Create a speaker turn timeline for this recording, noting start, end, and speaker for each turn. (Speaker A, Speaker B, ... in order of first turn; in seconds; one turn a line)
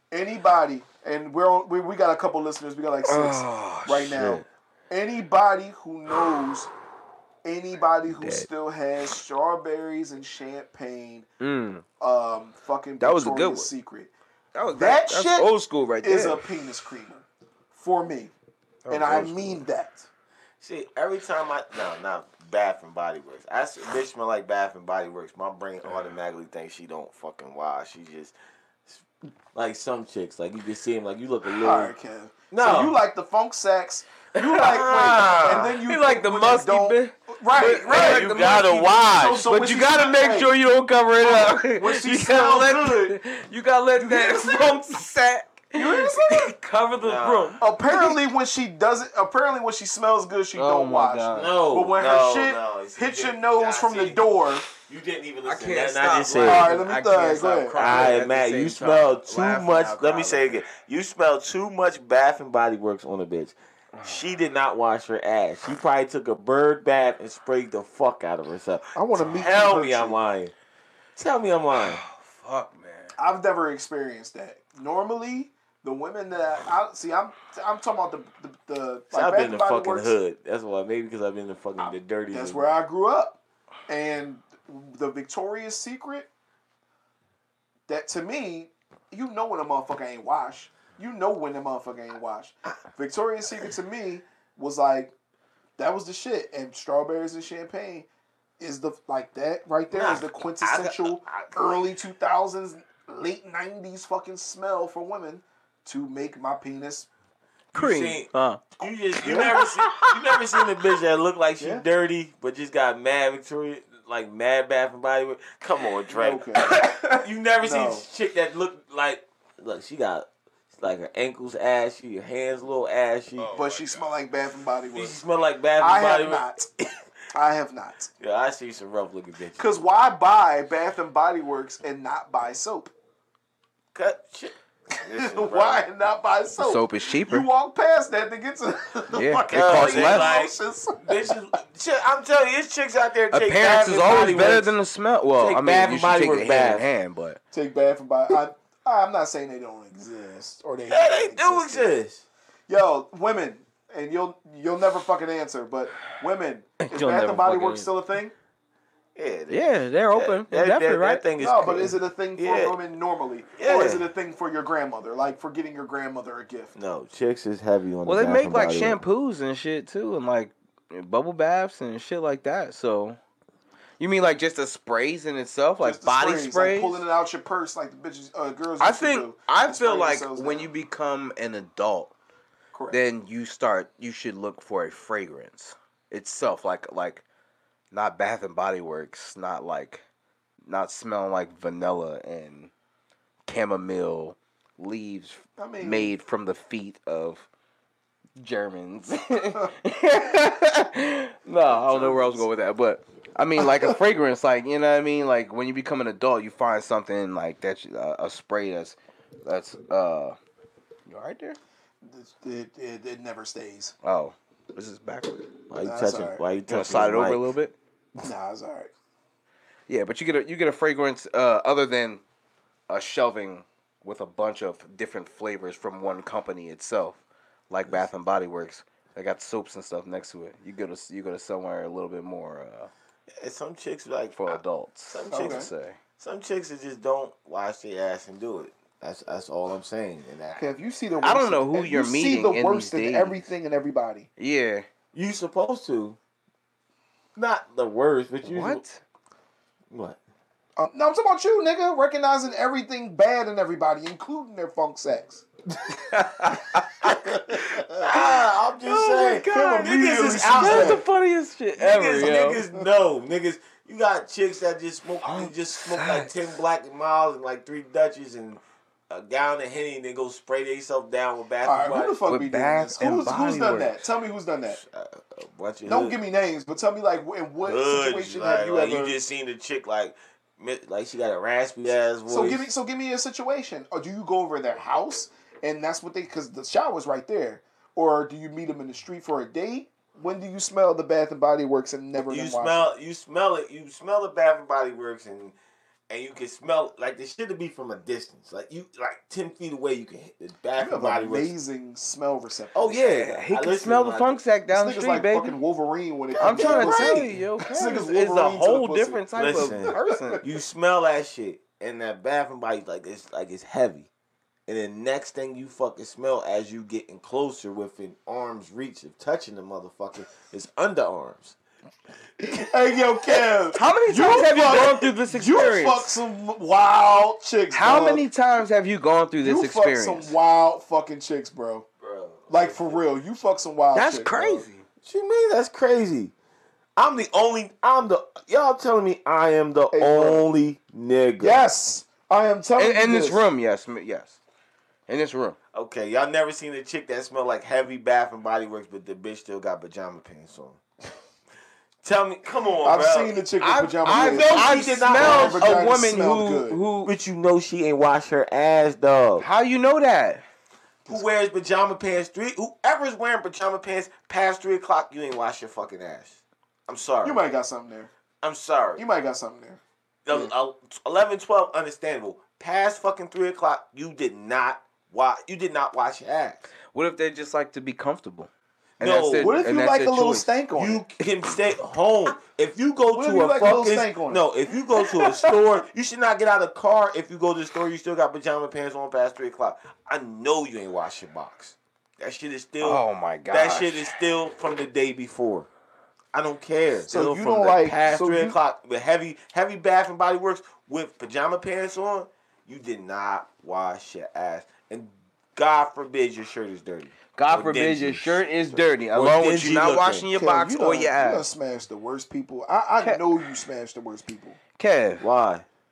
Speaker A: 0.1-6.7
Speaker B: 3.0-4.4
Speaker A: 7.5-11.3
Speaker B: 8.2-8.5
Speaker B: 11.4-11.8
Speaker A: 12.0-14.1
Speaker B: 13.0-13.7
Speaker B: 14.6-16.5
Speaker A: 14.7-15.5
Speaker A: 16.0-18.4
Speaker B: 18.9-19.6
Speaker A: 18.9-20.1
Speaker C: 20.6-28.3
Speaker C: 28.9-31.9
Speaker A: 31.6-38.4
Speaker C: 32.5-33.0
Speaker B: 34.4-35.0
Speaker C: 34.6-35.8
Speaker B: 35.5-48.2
Speaker C: 37.9-39.5
Speaker A: 38.9-40.5
Speaker A: 41.2-43.2
Speaker A: 44.0-44.8
Speaker A: 45.7-46.6
Speaker C: 47.0-47.6
Speaker A: 47.6-54.7
Speaker B: 50.5-51.5
Speaker C: 51.3-54.2
Speaker C: 54.8-56.7
Speaker B: 55.5-60.6
Speaker A: 56.4-58.1
Speaker C: 57.7-70.5
Speaker B: 64.0-64.2
Speaker A: 69.0-70.2
Speaker C: 71.2-72.0
Speaker B: 71.8-73.1
Speaker A: 73.2-80.2
Speaker C: 79.1-82.7
Speaker A: 82.3-86.3
Speaker A: 87.9-95.1
Speaker A: 95.8-98.1
Speaker A: 98.6-107.1
Speaker C: 99.9-101.5
Speaker B: 107.7-108.7
Speaker C: 107.7-123.8
Speaker B: 109.2-110.2
Speaker A: 111.6-111.8
Speaker A: 116.1-116.8
Speaker B: 116.6-117.2
Speaker A: 117.6-118.0
Speaker A: 123.5-125.2
Speaker C: 124.9-126.4
Speaker A: 125.8-126.7
Speaker A: 127.3-128.1
Speaker C: 128.2-129.7
Speaker A: 129.6-132.9
Speaker C: 133.9-135.9
Speaker A: 135.1-141.2
Speaker B: 136.6-137.5
Speaker B: 139.1-140.4
Speaker C: 139.5-144.7
Speaker B: 143.3-147.4
Speaker C: 145.3-146.9
Speaker A: 147.5-151.9
Speaker C: 150.9-152.2
Speaker A: 152.7-158.3
Speaker B: 156.9-157.8
Speaker C: 159.2-162.8
Speaker B: 159.5-161.2
Speaker A: 161.4-166.7
Speaker C: 163.6-164.1
Speaker C: 166.8-169.0
Speaker B: 168.1-173.2
Speaker B: 174.0-177.0
Speaker A: 175.8-180.7
Speaker B: 178.8-182.1
Speaker A: 182.7-183.0
Speaker B: 182.9-187.2
Speaker B: 187.9-190.0
Speaker B: 190.7-192.7
Speaker B: 193.5-197.5
Speaker A: 195.6-196.1
Speaker B: 198.4-210.4
Speaker A: 201.7-202.5
Speaker A: 203.6-203.9
Speaker B: 211.1-211.6
Speaker A: 212.0-213.9
Speaker B: 214.0-215.5
Speaker C: 215.7-217.5
Speaker A: 215.8-216.4
Speaker B: 216.7-217.7
Speaker A: 218.2-218.9
Speaker B: 219.9-222.2
Speaker B: 222.9-232.9
Speaker C: 233.4-234.6
Speaker B: 234.3-236.0
Speaker C: 235.1-235.7
Speaker A: 235.3-235.7
Speaker C: 236.2-240.7
Speaker A: 240.6-244.3
Speaker B: 241.2-243.4
Speaker B: 244.4-244.8
Speaker C: 245.1-246.2
Speaker C: 247.4-248.8
Speaker B: 248.4-249.0
Speaker C: 249.9-250.2
Speaker A: 250.8-255.4
Speaker B: 255.9-262.6
Speaker C: 257.9-261.0
Speaker A: 259.5-261.0
Speaker C: 261.8-272.2
Speaker B: 265.2-266.3
Speaker A: 271.6-274.8
Speaker B: 272.3-274.0
Speaker C: 274.8-276.2
Speaker A: 275.9-279.2
Speaker C: 277.6-282.7
Speaker A: 282.3-292.9
Speaker C: 292.3-295.6
Speaker C: 296.1-301.5
Speaker A: 300.8-303.0
Speaker C: 302.7-304.4
Speaker B: 302.9-305.6
Speaker A: 304.7-310.4
Speaker C: 306.4-307.2
Speaker B: 306.4-310.4
Speaker C: 309.3-314.1
Speaker C: 314.7-321.6
Speaker A: 322.4-328.2
Speaker B: 323.7-326.1
Speaker B: 327.7-330.3
Speaker A: 329.4-331.9
Speaker C: 332.0-333.0
Speaker A: 332.5-334.7
Speaker B: 333.9-334.8
Speaker C: 335.0-336.3
Speaker C: 337.0-341.6
Speaker A: 339.9-340.5
Speaker A: 341.4-343.5
Speaker B: 342.8-344.4
Speaker B: 345.1-345.6
Speaker C: 345.7-350.8
Speaker C: 352.0-353.4
Speaker A: 352.8-356.8
Speaker B: 353.6-357.1
Speaker C: 354.1-355.8
Speaker C: 357.0-359.5
Speaker B: 359.4-360.4
Speaker C: 361.1-367.4
Speaker A: 367.2-368.1
Speaker C: 368.4-369.0
Speaker A: 369.0-369.8
Speaker C: 370.3-376.7
Speaker B: 376.9-380.5
Speaker C: 379.0-379.6
Speaker A: 379.4-381.0
Speaker C: 380.8-395.7
Speaker A: 383.1-384.5
Speaker B: 392.8-394.1
Speaker C: 396.3-410.3
Speaker A: 397.1-398.6
Speaker B: 407.4-411.5
Speaker A: 410.3-414.6
Speaker B: 414.8-415.2
Speaker C: 415.2-415.6